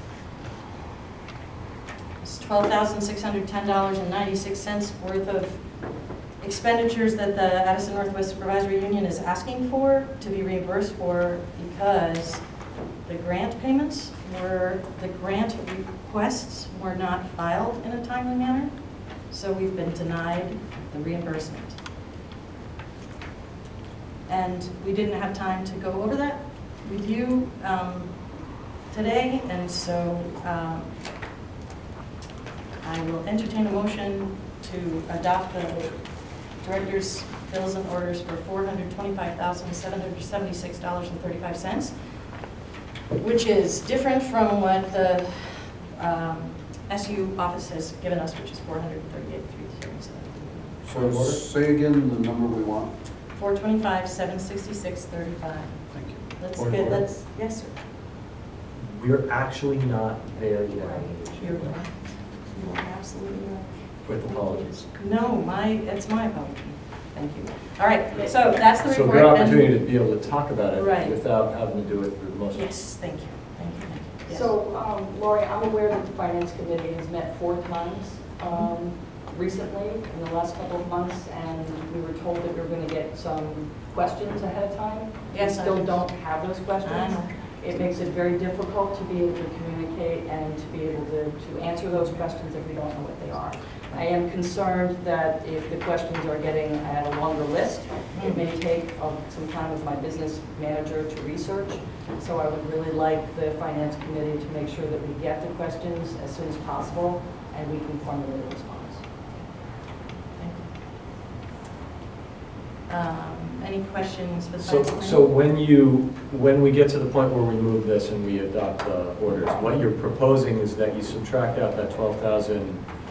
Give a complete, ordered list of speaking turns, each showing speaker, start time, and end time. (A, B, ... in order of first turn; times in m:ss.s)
0:02.2-0:05.7 A
0:06.4-0:12.4 A
0:13.0-0:21.8 A
0:24.3-0:30.9 A
0:32.8-0:42.2 A
0:43.2-0:50.7 A
0:50.8-0:52.9 B
0:50.9-0:51.4 C
0:53.3-0:57.8 A
0:55.9-0:56.2 B
0:56.5-0:57.1 C
0:58.8-1:01.8 C
1:01.4-1:09.8 A
1:04.0-1:04.8 C
1:08.6-1:12.7 C
1:10.7-1:11.2 A
1:12.5-1:14.5 A
1:14.3-1:49.0 D
1:18.4-1:18.7 A
1:25.3-1:27.3 A
1:38.1-1:38.4 A
1:50.3-1:50.7 A
1:52.9-1:55.2 A
1:54.6-2:02.9 C